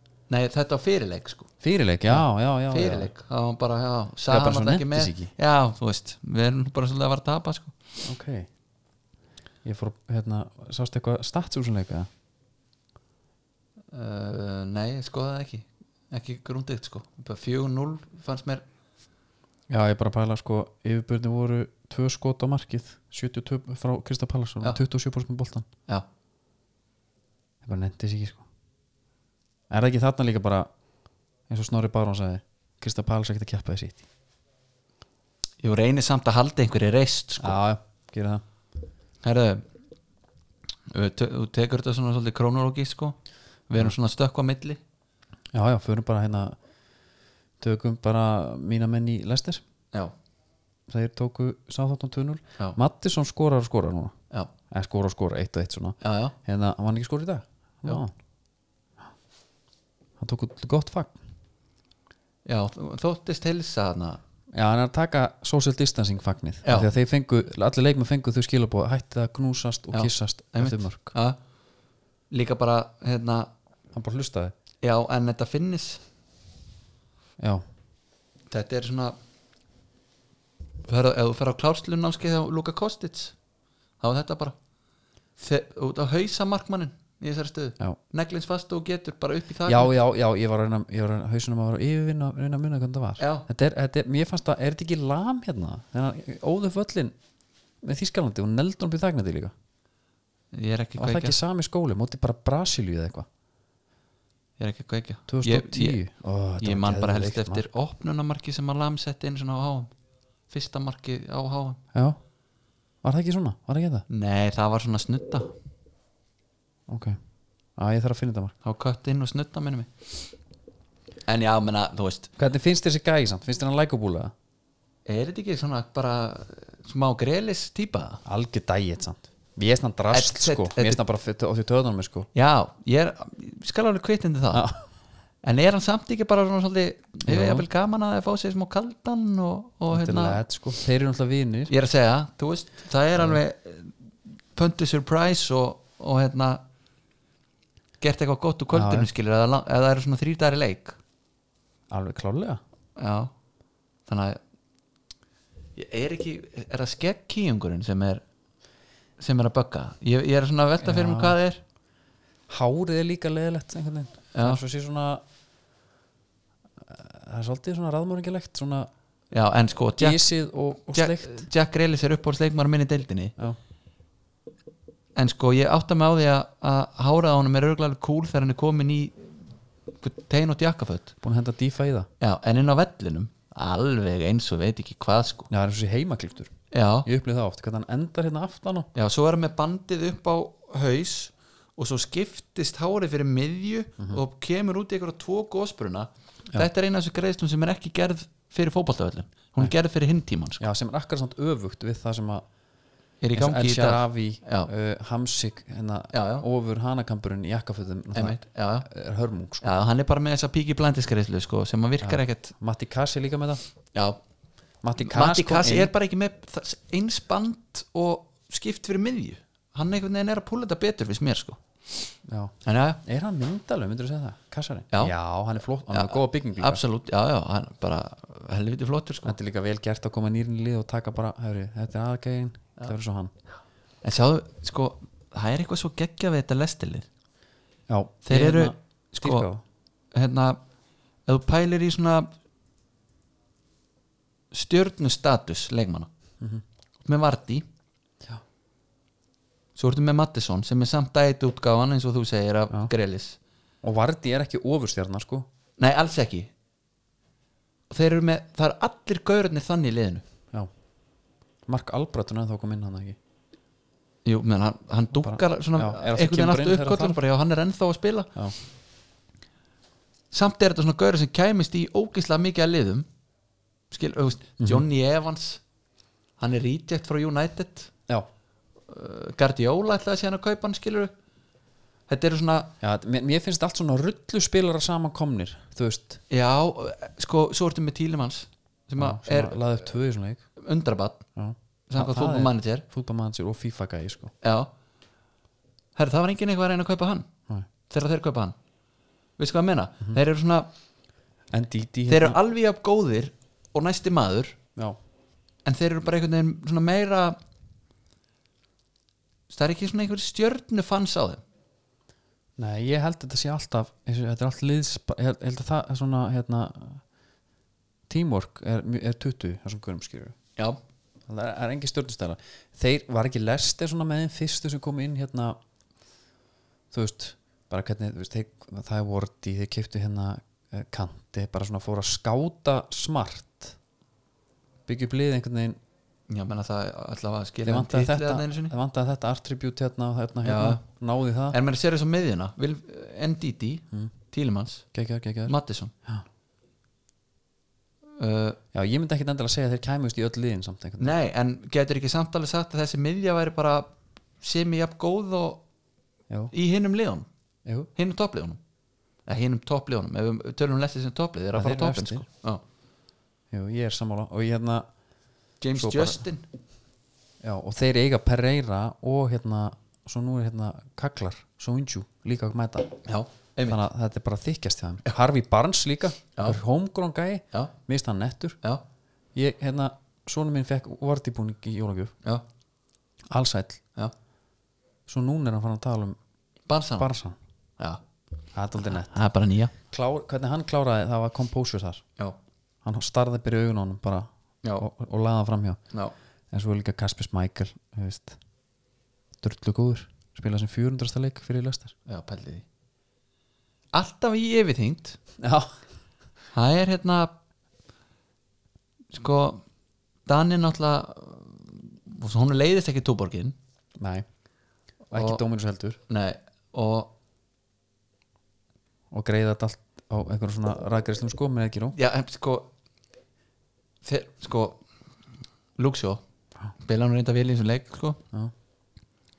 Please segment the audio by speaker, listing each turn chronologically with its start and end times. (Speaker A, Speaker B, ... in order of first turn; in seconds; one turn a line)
Speaker A: 0.3-1.5
Speaker B: 1.6-3.1
Speaker A: 2.1-7.8
Speaker B: 4.3-5.3
Speaker B: 8.0-8.5
Speaker B: 9.6-12.1
Speaker A: 13.9-18.6
Speaker B: 19.7-25.7
Speaker B: 27.6-28.4
Speaker B: 29.7-30.7
Speaker B: 31.5-34.0
Speaker A: 35.6-37.6
Speaker B: 37.4-38.4
Speaker A: 39.2-39.6
Speaker A: 40.9-44.8
Speaker B: 45.5-46.6
Speaker B: 47.6-49.6
Speaker B: 50.9-54.1
Speaker B: 54.7-58.1
Speaker A: 56.0-56.4
Speaker B: 60.2-61.2
Speaker A: 62.5-64.2
Speaker B: 64.5-71.2
Speaker A: 66.6-66.9
Speaker A: 69.9-71.4
Speaker A: 72.3-73.5
Speaker B: 73.9-74.5
Speaker A: 74.8-76.0
Speaker B: 77.4-77.6
Speaker A: 78.5-79.2
Speaker A: 80.8-83.3
Speaker A: 84.0-84.6
Speaker A: 85.4-89.9
Speaker B: 89.7-97.2
Speaker A: 93.2-93.5
Speaker B: 97.8-99.5
Speaker A: 100.5-101.4
Speaker B: 101.0-103.3
Speaker A: 104.6-106.0
Speaker B: 105.3-107.7
Speaker A: 106.6-109.9
Speaker A: 110.5-111.8
Speaker B: 111.9-112.2
Speaker B: 113.0-114.0
Speaker A: 114.1-115.5
Speaker B: 116.9-117.2
Speaker B: 117.8-118.5
Speaker A: 118.6-119.9
Speaker A: 121.3-122.3
Speaker B: 122.4-124.3
Speaker A: 125.1-128.2
Speaker B: 128.2-132.3
Speaker A: 130.1-131.0
Speaker A: 132.3-134.7
Speaker B: 134.5-134.8
Speaker A: 135.4-140.4
Speaker B: 137.3-137.7
Speaker B: 139.9-141.7
Speaker A: 141.7-143.9
Speaker A: 144.6-146.6
Speaker A: 148.0-151.0
Speaker B: 148.7-149.1
Speaker B: 151.9-152.6
Speaker A: 153.0-153.3
Speaker A: 154.1-154.4
Speaker A: 155.8-158.2
Speaker A: 159.2-161.6
Speaker B: 160.8-161.4
Speaker B: 162.5-165.2
Speaker A: 164.3-164.6
Speaker B: 166.8-168.9
Speaker A: 169.3-170.2
Speaker B: 170.0-171.5
Speaker A: 170.9-173.3
Speaker A: 175.2-179.3
Speaker A: 180.0-181.1
Speaker B: 181.2-182.1
Speaker A: 182.2-185.5
Speaker B: 185.5-186.5
Speaker A: 186.7-187.1
Speaker B: 187.1-188.9
Speaker A: 188.9-200.7
Speaker B: 200.6-202.4
Speaker A: 203.2-204.7
Speaker B: 203.3-209.7
Speaker A: 206.1-206.5
Speaker A: 208.2-208.9
Speaker A: 209.6-212.5
Speaker B: 212.0-213.6
Speaker B: 214.8-215.9
Speaker A: 215.0-222.1
Speaker B: 222.2-226.8
Speaker A: 222.7-223.0
Speaker A: 225.9-229.4
Speaker B: 229.2-233.3
Speaker A: 234.0-237.1
Speaker B: 237.9-239.6
Speaker A: 238.3-239.5
Speaker A: 240.1-240.6
Speaker A: 241.3-242.3
Speaker A: 244.5-246.1
Speaker A: 247.0-247.7
Speaker A: 249.8-253.4
Speaker B: 253.8-255.5
Speaker A: 255.8-256.5
Speaker A: 257.9-260.2
Speaker B: 261.7-263.2
Speaker A: 264.2-268.4
Speaker B: 265.2-267.2
Speaker A: 270.3-273.1
Speaker A: 273.9-275.6
Speaker A: 276.4-277.9
Speaker A: 278.9-281.1
Speaker A: 282.1-282.7
Speaker B: 282.8-286.2
Speaker A: 286.3-289.6
Speaker B: 289.0-290.4
Speaker A: 290.6-291.2
Speaker B: 291.4-294.3
Speaker A: 291.9-292.9
Speaker A: 294.4-294.7
Speaker A: 296.0-297.3
Speaker A: 297.9-298.6
Speaker A: 299.4-300.7
Speaker B: 301.5-302.4
Speaker A: 302.1-304.6
Speaker A: 305.6-307.4
Speaker A: 309.5-311.4
Speaker B: 312.6-317.0
Speaker B: 318.1-320.4
Speaker B: 321.3-325.6
Speaker B: 326.9-333.8
Speaker B: 334.9-335.8
Speaker A: 336.3-338.7
Speaker B: 337.6-341.6
Speaker A: 340.4-340.8
Speaker A: 341.5-344.9
Speaker B: 344.9-345.6
Speaker A: 345.5-345.9
Speaker A: 348.2-348.6
Speaker B: 348.7-351.1
Speaker A: 351.0-355.6
Speaker A: 356.5-357.3
Speaker A: 357.9-358.6
Speaker A: 359.3-362.6
Speaker B: 361.6-362.2
Speaker B: 363.5-364.9
Speaker A: 365.6-366.5
Speaker B: 365.8-366.2
Speaker B: 367.4-373.0
Speaker A: 373.1-373.8
Speaker B: 373.7-378.6
Speaker B: 379.4-382.1
Speaker B: 383.3-383.8
Speaker B: 385.1-386.2
Speaker A: 386.7-387.1
Speaker B: 387.0-387.4
Speaker B: 388.5-389.2
Speaker A: 388.8-389.7
Speaker B: 389.9-392.0
Speaker B: 392.8-395.8
Speaker B: 396.5-398.4
Speaker B: 399.4-401.9
Speaker A: 402.1-402.6
Speaker A: 403.9-405.2
Speaker B: 405.4-405.7
Speaker A: 406.5-407.3
Speaker A: 409.1-409.6
Speaker A: 410.3-413.6
Speaker B: 414.0-414.3
Speaker A: 415.1-415.4
Speaker B: 415.1-416.0
Speaker A: 416.1-417.1
Speaker B: 419.1-422.0
Speaker A: 421.9-422.7
Speaker A: 424.0-424.8
Speaker A: 425.8-426.2
Speaker A: 426.8-428.2